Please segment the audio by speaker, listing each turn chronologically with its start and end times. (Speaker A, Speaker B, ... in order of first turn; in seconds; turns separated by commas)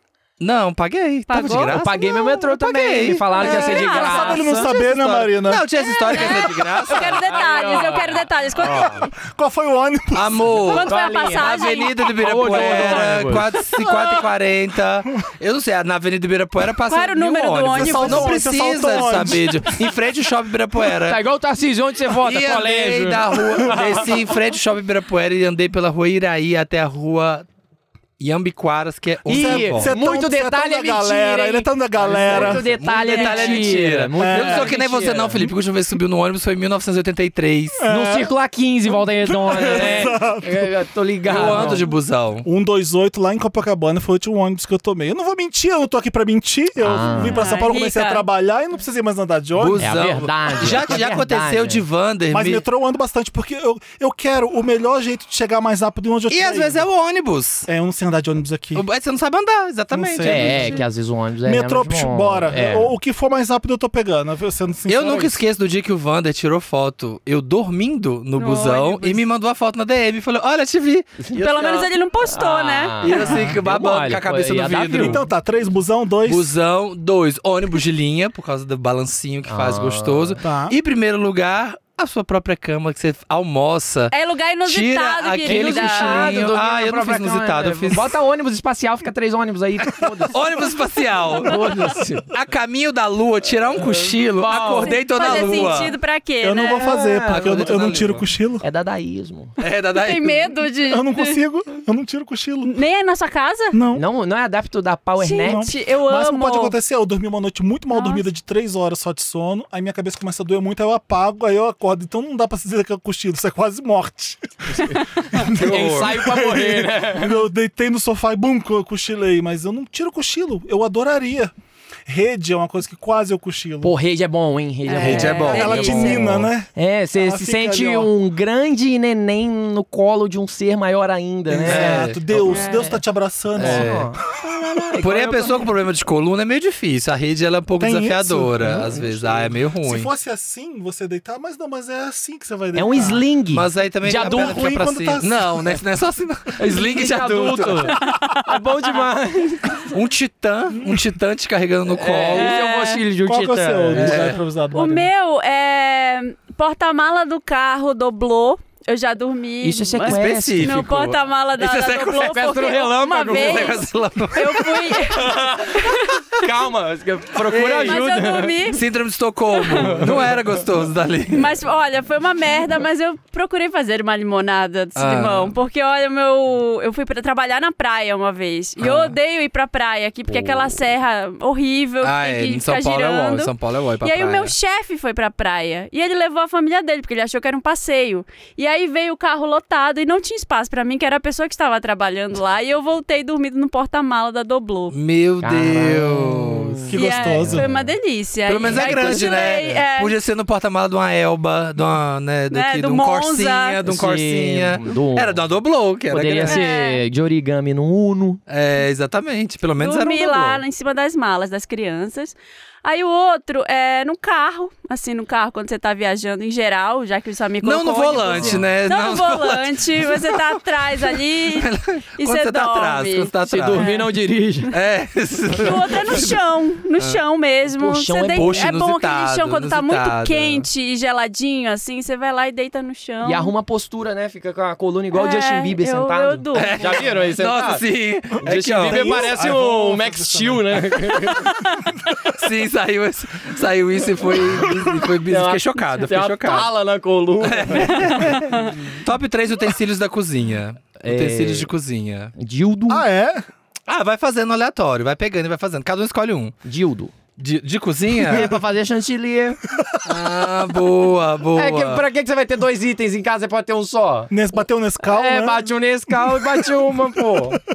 Speaker A: 0.4-3.7, Speaker B: 1.3-1.8, Speaker C: 1.7-4.7, Speaker B: 3.4-4.7, Speaker D: 3.4-5.6, Speaker A: 4.6-7.3, Speaker B: 5.8-9.1, Speaker C: 6.8-9.1, Speaker D: 8.7-10.7, Speaker A: 10.1-21.2, Speaker B: 10.7-13.1, Speaker C: 10.8-13.5, Speaker B: 16.9-18.4, Speaker D: 17.7-19.8, Speaker C: 21.0-24.1, Speaker A: 22.2-27.4, Speaker A: 28.2-29.9, Speaker C: 29.2-35.5, Speaker D: 29.3-32.7, Speaker A: 32.3-37.8, Speaker B: 33.0-33.8, Speaker D: 34.2-34.7, Speaker D: 37.8-38.3, Speaker C: 37.9-41.9, Speaker D: 39.2-40.7, Speaker A: 41.2-42.5, Speaker D: 41.4-41.8, Speaker D: 42.4-49.9, Speaker C: 46.8-47.5, Speaker B: 47.2-48.2, Speaker A: 49.6-52.6, Speaker C: 49.8-51.8, Speaker D: 52.3-56.8, Speaker A: 56.3-57.7, Speaker D: 57.7-58.8, Speaker A: 58.7-60.8, Speaker D: 59.9-60.8, Speaker C: 60.2-62.9, Speaker D: 61.4-65.4, Speaker A: 64.9-71.9, Speaker B: 68.3-69.2, Speaker C: 71.2-75.2, Speaker B: 71.3-73.3, Speaker A: 73.0-75.2, Speaker D: 74.9-76.5, Speaker A: 76.2-88.1, Speaker C: 79.5-80.4, Speaker D: 80.4-80.8, Speaker B: 84.1-86.4, Speaker C: 85.4-90.7, Speaker A: 90.3-96.0, Speaker C: 91.4-92.3, Speaker C: 94.0-95.7, Speaker B: 94.8-96.9, Speaker D: 96.4-98.6, Speaker C: 96.7-97.7, Speaker A: 97.3-98.2, Speaker C: 98.6-99.5, Speaker A: 99.6-100.6, Speaker B: 99.9-101.4, Speaker D: 100.8-102.7, Speaker B: 102.6-103.8, Speaker D: 103.7-104.0, Speaker C: 103.9-105.7, Speaker B: 105.2-106.7, Speaker D: 105.4-121.5, Speaker B: 107.9-108.2, Speaker C: 114.8-117.4, Speaker A: 115.4-116.2, Speaker D: 122.1-123.9, Speaker C: 123.8-133.0, Speaker B: 124.8-126.2, Speaker A: 124.9-126.3, Speaker D: 125.4-128.1, Speaker D: 131.5-134.0, Speaker A: 131.7-132.2, Speaker B: 132.5-132.9, Speaker A: 133.6-134.1, Speaker C: 133.6-135.6, Speaker A: 135.0-140.1, Speaker D: 137.8-143.2, Speaker C: 142.7-144.7, Speaker A: 143.5-148.1, Speaker D: 144.1-145.8, Speaker C: 146.6-149.9, Speaker B: 148.0-148.4, Speaker A: 149.9-152.6, Speaker C: 151.9-154.4, Speaker B: 152.3-153.0, Speaker D: 153.2-155.1, Speaker A: 153.9-154.4, Speaker B: 154.7-166.2, Speaker C: 159.6-161.0, Speaker A: 160.0-162.4, Speaker C: 162.0-163.8, Speaker A: 163.2-165.0, Speaker C: 165.1-168.7, Speaker A: 167.5-168.0, Speaker B: 167.8-168.8, Speaker A: 168.7-171.6, Speaker B: 169.6-170.0, Speaker C: 169.7-170.5, Speaker B: 171.3-183.5, Speaker A: 174.9-175.6, Speaker A: 178.8-179.2, Speaker C: 180.3-180.7, Speaker A: 182.0-184.5, Speaker B: 184.0-194.9, Speaker A: 194.9-196.9, Speaker C: 195.4-197.9, Speaker D: 196.9-197.7, Speaker B: 196.9-200.1, Speaker A: 198.4-206.7, Speaker C: 198.7-199.2, Speaker B: 202.5-203.8, Speaker C: 203.8-205.4, Speaker C: 206.1-208.4, Speaker B: 206.5-207.0, Speaker A: 208.5-210.6, Speaker B: 209.8-224.1, Speaker A: 217.6-223.9, Speaker C: 223.4-224.7, Speaker A: 224.7-226.4, Speaker B: 225.5-233.5, Speaker C: 227.7-228.7, Speaker A: 228.3-230.7, Speaker C: 233.2-237.8, Speaker B: 235.1-236.9, Speaker A: 236.5-239.3, Speaker C: 238.4-241.5, Speaker D: 238.5-241.3, Speaker A: 242.3-246.7, Speaker D: 244.5-244.9, Speaker C: 245.2-248.7, Speaker A: 247.4-252.3, Speaker C: 251.0-251.7, Speaker C: 252.3-253.0, Speaker D: 252.9-253.4, Speaker A: 253.9-256.6, Speaker C: 256.6-257.1, Speaker A: 257.4-258.5, Speaker C: 258.2-259.6, Speaker A: 260.0-262.0, Speaker C: 261.5-264.3, Speaker D: 264.3-266.9, Speaker C: 265.0-267.6